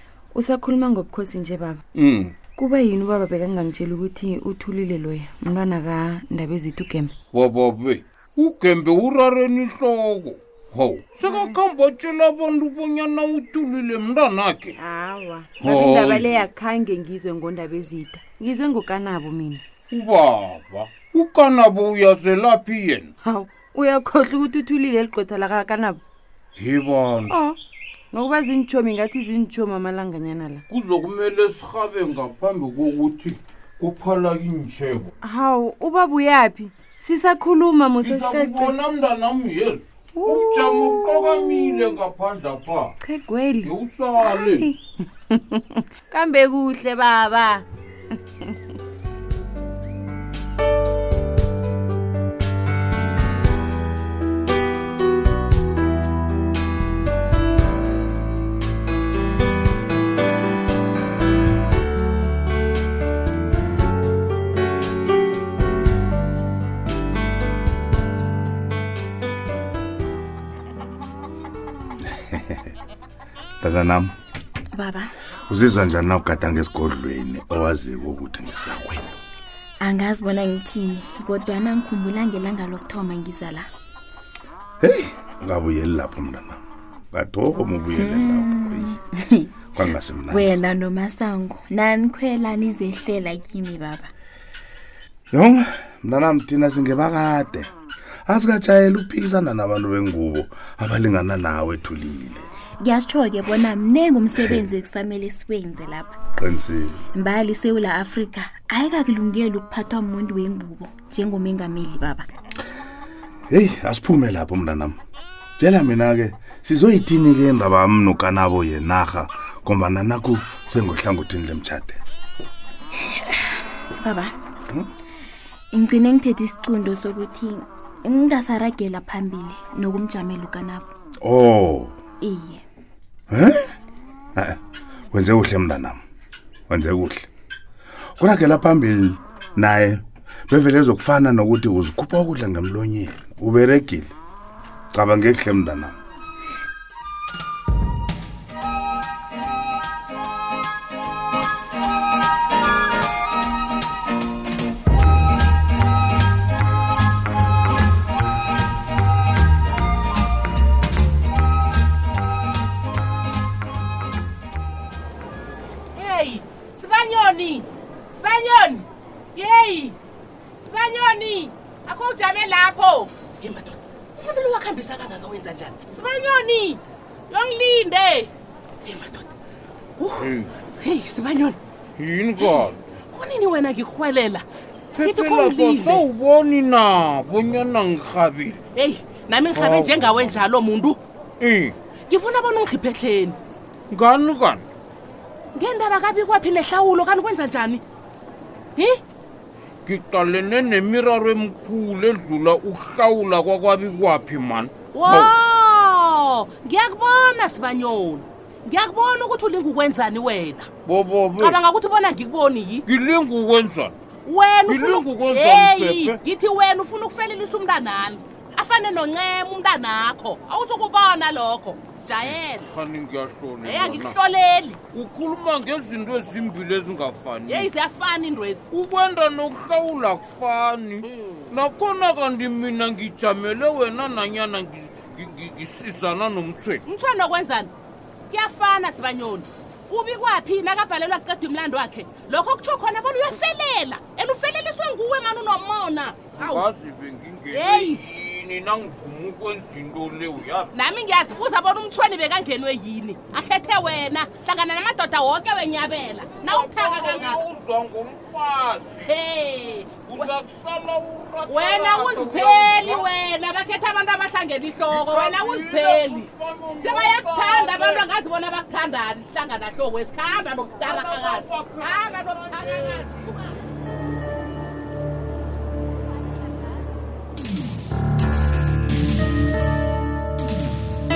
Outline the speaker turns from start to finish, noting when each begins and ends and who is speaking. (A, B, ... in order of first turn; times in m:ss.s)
0:00.3-0:01.8 A
0:01.9-0:02.4 B
0:02.5-0:07.1 A
0:07.3-0:14.8 B
0:11.2-0:11.6 A
0:14.7-0:19.6 A
0:15.6-0:16.4 B
0:19.9-0:23.1 B
0:23.2-0:26.0 A
0:26.6-0:27.4 B
0:27.3-0:27.6 A
0:28.1-0:30.6 A
0:30.7-0:35.1 B
0:35.2-0:38.8 A
0:38.0-0:42.9 B
0:40.2-0:42.0 A
0:43.0-0:47.6 A
0:43.6-0:44.7 B
0:48.1-0:48.6 A
1:12.2-1:12.6 C
1:13.6-1:14.1 C
1:14.7-1:15.1 D
1:15.5-1:19.1 C
1:19.8-1:23.7 D
1:24.8-1:26.6 C
1:27.1-1:28.9 C
1:27.9-1:29.5 D
1:29.7-1:30.5 C
1:30.3-1:34.1 D
1:35.3-1:37.7 C
1:38.3-1:42.5 C
1:42.8-1:46.1 D
1:46.4-1:47.0 C
1:47.1-1:52.3 D
1:53.5-1:55.0 C
1:55.6-2:02.0 C
2:04.0-2:04.3 D
2:05.7-2:10.9 D
2:11.2-2:12.0 C
2:12.2-2:12.6 D
2:13.3-2:13.6 C
2:15.1-2:16.0 C
2:16.7-2:17.3 C
2:18.2-2:24.1 C
2:24.9-2:26.0 C
2:45.9-2:50.0 E
2:50.6-2:58.3 E
2:58.8-2:59.2 E
3:00.0-3:01.6 E
3:00.2-3:00.5 B
3:02.0-3:02.8 B
3:02.4-3:04.4 E
3:04.9-3:08.6 B
3:05.0-3:06.0 E
3:08.8-3:11.0 E
3:09.6-3:10.3 B
3:11.4-3:11.8 B
3:12.1-3:13.4 E
3:13.9-3:14.7 B
3:15.5-3:17.8 E
3:18.8-3:19.0 E
3:19.8-3:25.3 B
3:24.9-3:30.7 E
3:30.8-3:31.6 B
3:31.4-3:32.8 E
3:32.8-3:34.0 B
3:34.2-3:42.7 E
3:34.7-3:36.2 B
3:42.2-3:44.2 B
3:43.6-3:44.8 E
3:44.9-3:47.7 B
3:47.5-3:48.6 E
3:48.7-3:56.8 B
3:56.8-3:57.7 E
3:58.3-4:06.6 E
4:06.3-4:10.7 B
4:07.5-4:08.0 E
4:10.7-4:17.4 E
4:16.4-4:19.1 B
4:19.0-4:20.3 E
4:20.0-4:23.1 B
4:21.5-4:33.6 E
4:24.9-4:28.1 B
4:30.8-4:33.3 B